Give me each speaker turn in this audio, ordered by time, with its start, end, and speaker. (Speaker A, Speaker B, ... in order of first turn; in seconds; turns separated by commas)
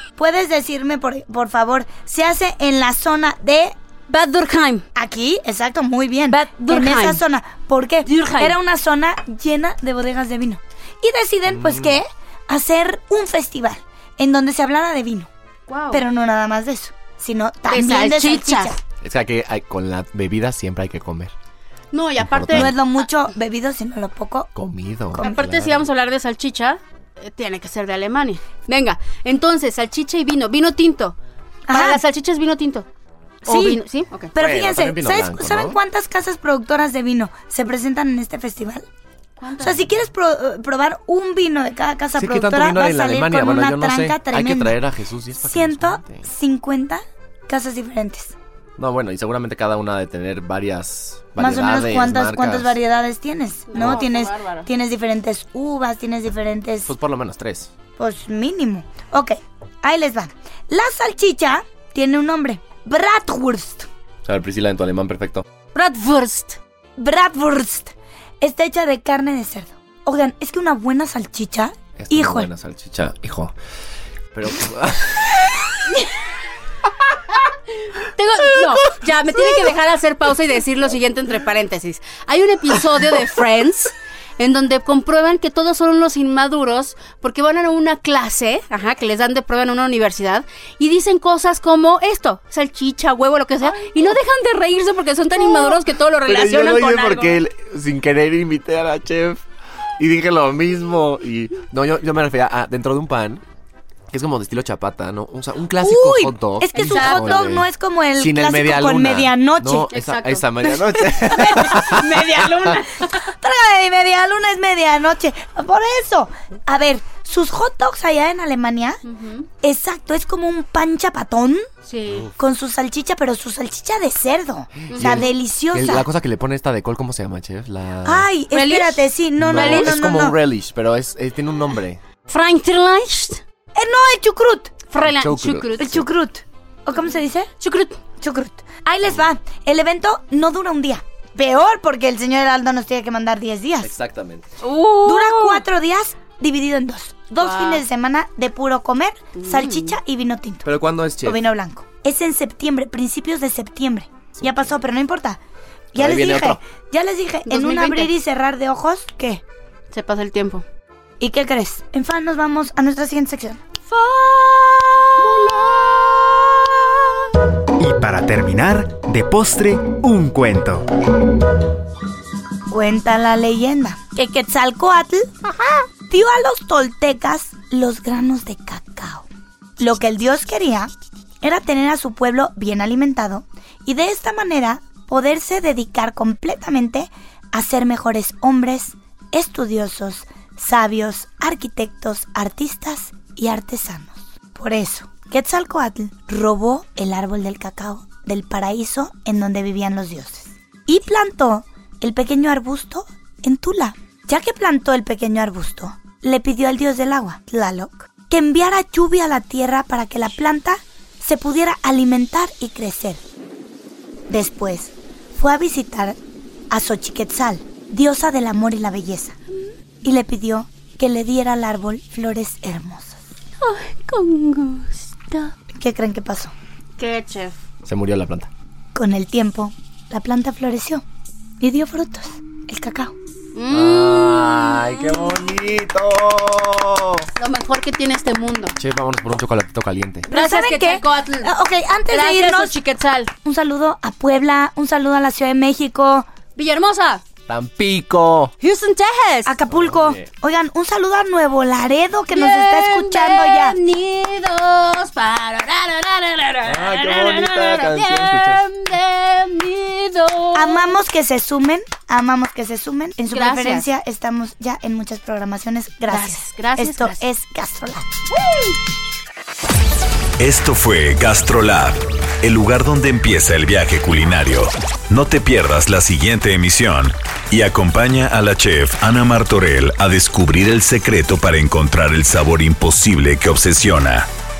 Speaker A: 0.2-3.8, Speaker B: 4.1-4.8, Speaker A: 5.0-15.3, Speaker B: 6.3-7.2, Speaker B: 8.0-8.6, Speaker C: 11.5-12.0, Speaker B: 15.7-16.0, Speaker A: 15.9-18.8, Speaker B: 17.7-18.7, Speaker C: 19.0-21.3, Speaker B: 21.9-22.8, Speaker C: 22.2-22.7, Speaker A: 22.5-24.5, Speaker C: 24.6-25.9, Speaker B: 25.2-31.2, Speaker A: 31.7-32.0, Speaker B: 31.7-32.9, Speaker B: 33.5-34.3, Speaker A: 33.5-33.8, Speaker A: 34.4-38.9, Speaker C: 34.4-35.8, Speaker B: 39.4-39.9, Speaker A: 39.6-44.8, Speaker C: 42.1-46.3, Speaker A: 45.4-48.3, Speaker C: 48.8-52.8, Speaker A: 51.4-56.9, Speaker B: 53.7-54.7, Speaker C: 56.9-57.7, Speaker A: 58.0-63.9, Speaker C: 64.2-65.5, Speaker B: 65.7-66.6, Speaker A: 67.0-72.5, Speaker C: 72.0-73.5, Speaker C: 74.3-75.7, Speaker B: 77.9-97.4, Speaker C: 95.5-99.4, Speaker C: 100.0-103.4, Speaker C: 104.1-112.3, Speaker A: 105.8-109.9, Speaker B: 106.8-107.4, Speaker B: 109.9-113.2, Speaker A: 112.3-112.6, Speaker A: 113.2-119.0, Speaker B: 119.0-119.5, Speaker A: 119.6-121.7, Speaker B: 121.8-122.3, Speaker A: 122.4-126.1, Speaker C: 124.9-128.3, Speaker B: 124.9-125.3, Speaker A: 128.1-130.4, Speaker B: 128.5-130.0, Speaker C: 129.4-132.0, Speaker B: 132.3-133.4, Speaker A: 133.8-134.8, Speaker B: 134.9-136.0, Speaker C: 135.0-136.0, Speaker A: 135.8-137.5, Speaker B: 137.6-137.9, Speaker A: 138.2-143.9, Speaker C: 143.8-144.5, Speaker B: 144.6-145.6, Speaker A: 145.1-155.4, Speaker B: 147.4-147.8, Speaker B: 149.4-150.0, Speaker C: 150.7-151.4, Speaker C: 154.4-154.7, Speaker A: 155.9-159.4, Speaker C: 156.0-156.6, Speaker B: 157.5-158.1, Speaker B: 159.9-160.6, Speaker A: 161.2-165.3, Speaker B: 163.9-164.3, Speaker B: 165.2-165.6, Speaker D: 167.8-170.9, Speaker A: 172.7-175.3, Speaker A: 176.1-179.3, Speaker A: 179.8-213.2, Speaker A: 214.3-216.2, Speaker A: 216.7-219.4, Speaker A: 220.0-223.2, Speaker B: 223.6-225.5, Speaker A: 225.7-226.5, Speaker B: 227.0-227.6, Speaker C: 227.8-228.5, Speaker A: 228.9-231.0, Speaker A: 231.6-233.1, Speaker B: 233.6-235.6, Speaker C: 233.7-237.3, Speaker B: 237.4-238.8, Speaker C: 238.8-240.3, Speaker B: 240.3-241.5, Speaker A: 240.3-242.7, Speaker B: 242.1-243.3, Speaker A: 243.4-246.3, Speaker B: 246.6-247.2, Speaker C: 247.5-248.5, Speaker B: 248.6-249.6, Speaker A: 249.5-253.8, Speaker C: 249.7-250.3, Speaker B: 252.3-261.0, Speaker C: 256.7-258.6, Speaker A: 260.5-268.1, Speaker B: 263.3-263.9, Speaker B: 266.1-267.3, Speaker E: 270.4-284.3